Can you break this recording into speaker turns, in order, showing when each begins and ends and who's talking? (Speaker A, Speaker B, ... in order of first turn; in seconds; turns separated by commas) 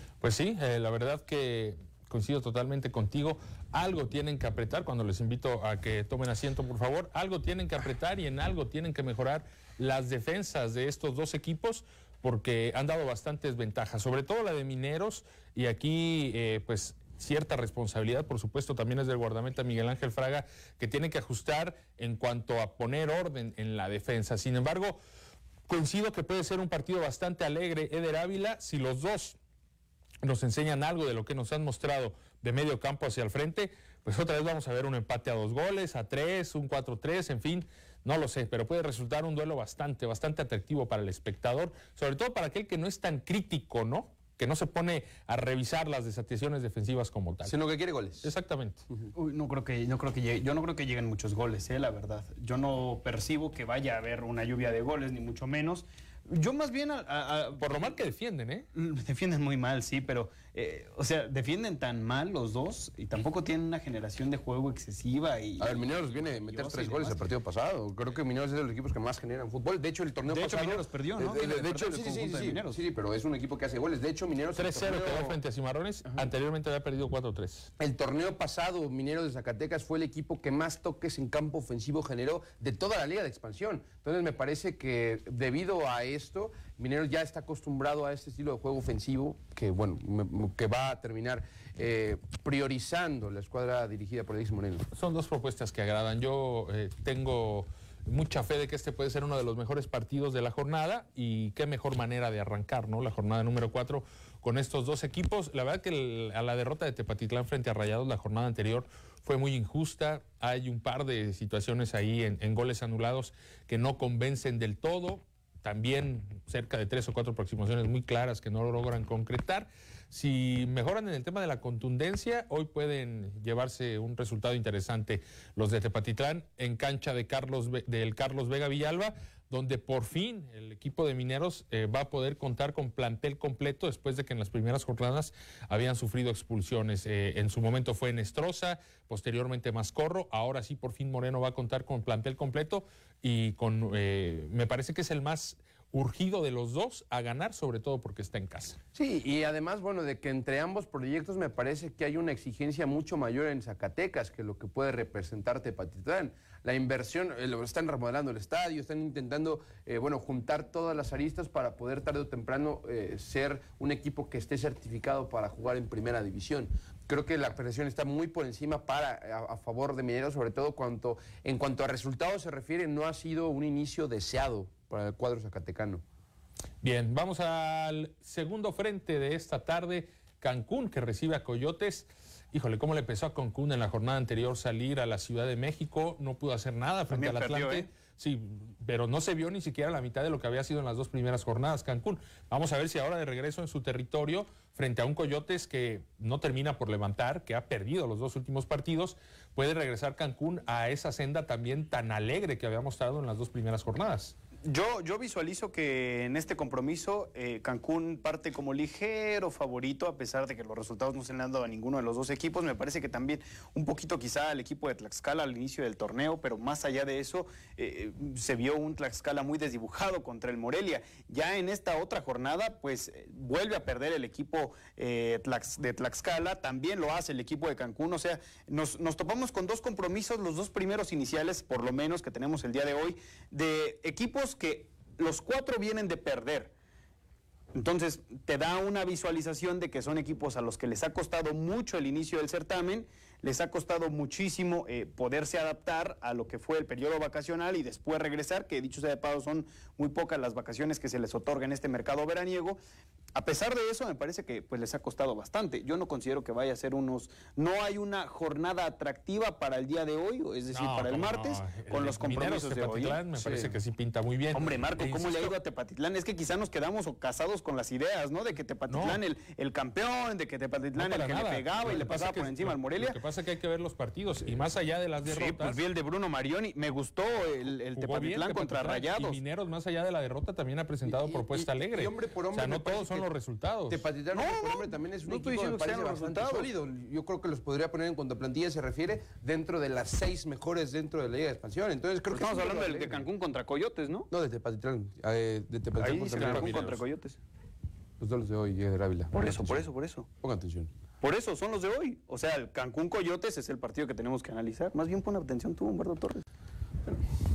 Speaker A: 0.2-25.0, Speaker A: 25.7-29.4, Speaker A: 30.2-47.6, Speaker B: 47.5-48.3, Speaker A: 48.2-48.8, Speaker C: 49.2-58.0, Speaker A: 57.6-58.7, Speaker C: 58.8-67.2, Speaker B: 65.6-75.4, Speaker C: 70.3-72.8, Speaker A: 74.6-77.7, Speaker B: 77.8-94.9, Speaker A: 94.9-148.8, Speaker B: 148.9-176.0, Speaker A: 176.8-204.3, Speaker C: 187.1-187.9, Speaker C: 204.7-236.7, Speaker C: 237.7-252.8, Speaker C: 253.3-263.2, Speaker A: 260.7-265.6, Speaker B: 263.4-263.7, Speaker C: 264.5-273.2, Speaker A: 268.9-269.2, Speaker A: 270.9-275.8, Speaker C: 275.3-279.4, Speaker A: 277.9-284.0, Speaker B: 281.1-283.3, Speaker B: 283.9-293.3, Speaker C: 284.3-286.7, Speaker C: 292.3-294.3, Speaker B: 294.3-296.8, Speaker C: 296.0-297.4, Speaker A: 296.4-297.0, Speaker B: 298.2-299.9, Speaker C: 299.3-300.3, Speaker B: 300.4-300.9, Speaker C: 301.2-306.4